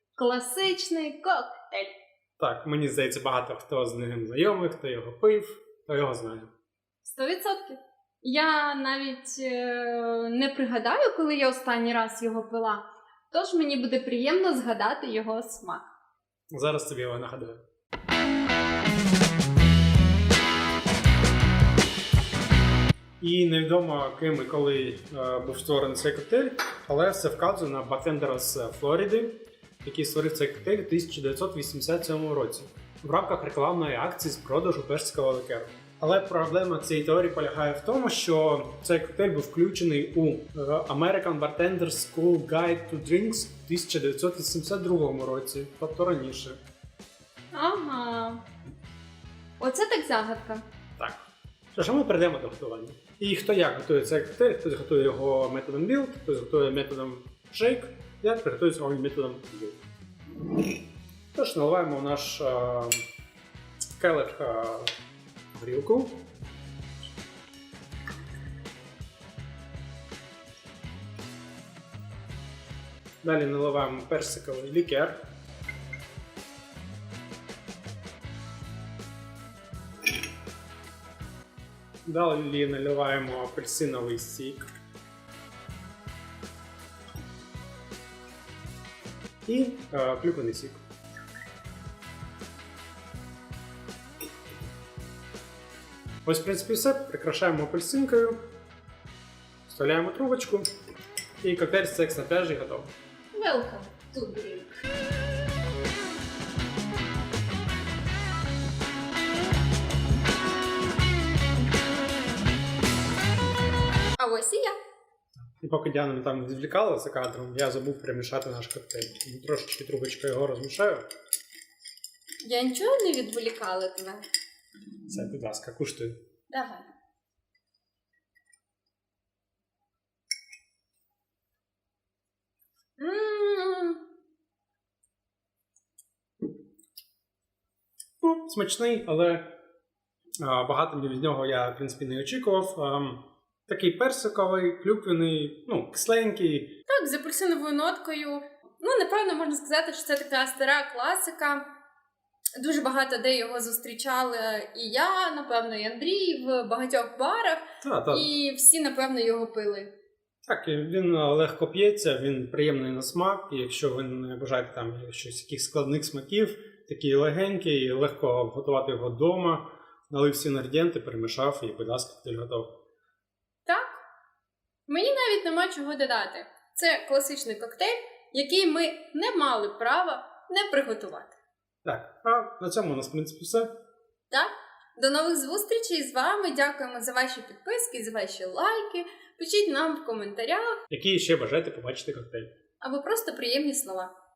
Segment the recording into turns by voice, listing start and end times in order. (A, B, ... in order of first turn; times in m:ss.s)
0:00.2-0:01.9 A
0:02.4-0:06.5 B
0:07.0-0:15.9 A
0:16.5-0:17.6 B
0:23.2-0:46.6 B
0:47.5-0:48.4 A
0:49.6-0:50.6 A
0:51.0-0:59.8 B
1:01.3-1:03.0 B
1:04.0-1:04.9 B
1:05.5-1:06.3 B
1:13.2-1:15.2 B
1:22.0-1:24.6 B
1:29.4-1:30.8 B
1:36.2-1:38.4 B
1:39.7-1:40.7 B
1:41.4-1:42.9 B
1:43.3-1:44.7 A
1:54.2-1:54.8 A
1:55.6-2:01.0 B
2:02.4-2:04.2 A
2:05.1-2:06.2 B
2:06.5-2:06.9 A
2:13.0-2:14.0 A
2:18.2-2:19.5 B
2:20.4-2:26.7 B
2:26.9-2:31.6 A
2:32.6-2:39.9 A
2:37.8-2:38.3 B
2:40.4-2:52.7 B
2:53.6-2:54.0 A
2:54.9-3:01.4 A
3:01.8-3:03.7 B
3:04.3-3:10.8 A
3:10.9-3:12.5 B
3:12.8-3:14.1 A